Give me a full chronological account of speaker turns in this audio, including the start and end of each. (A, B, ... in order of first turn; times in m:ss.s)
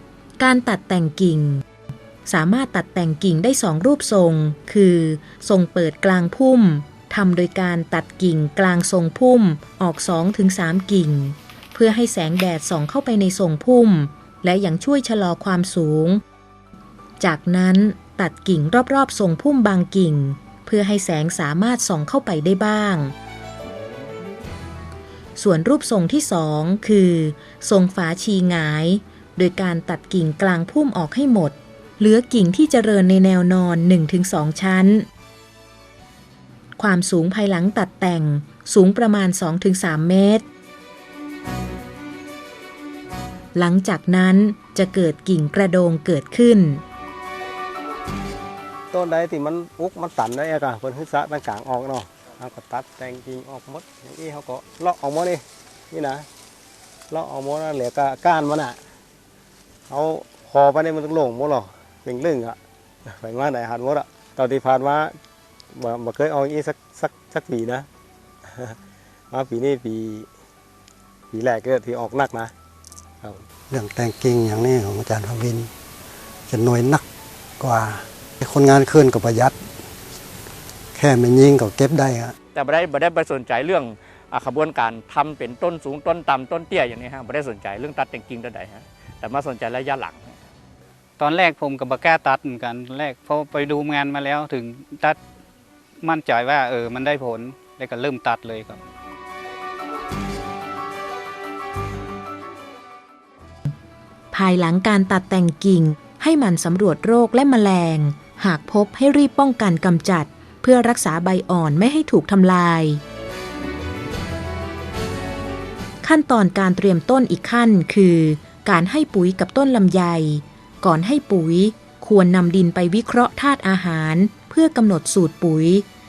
0:00.4-0:01.6 A
0:02.3-0:16.2 A
0:17.2-0:23.1 A
0:25.4-0:35.1 A
0:36.8-0:40.4 A
0:43.6-0:46.8 A
0:48.9-0:56.3 B
0:57.1-0:58.8 B
0:59.9-1:05.2 B
1:05.7-1:07.9 B
1:09.3-1:10.3 B
1:11.3-1:12.5 B
1:13.7-1:15.7 C
1:16.5-1:17.1 C
1:17.6-1:19.6 C
1:20.9-1:22.4 C
1:22.5-1:30.3 D
1:31.2-1:35.2 E
1:36.0-1:38.8 E
1:44.3-1:53.0 A
1:56.0-2:05.8 A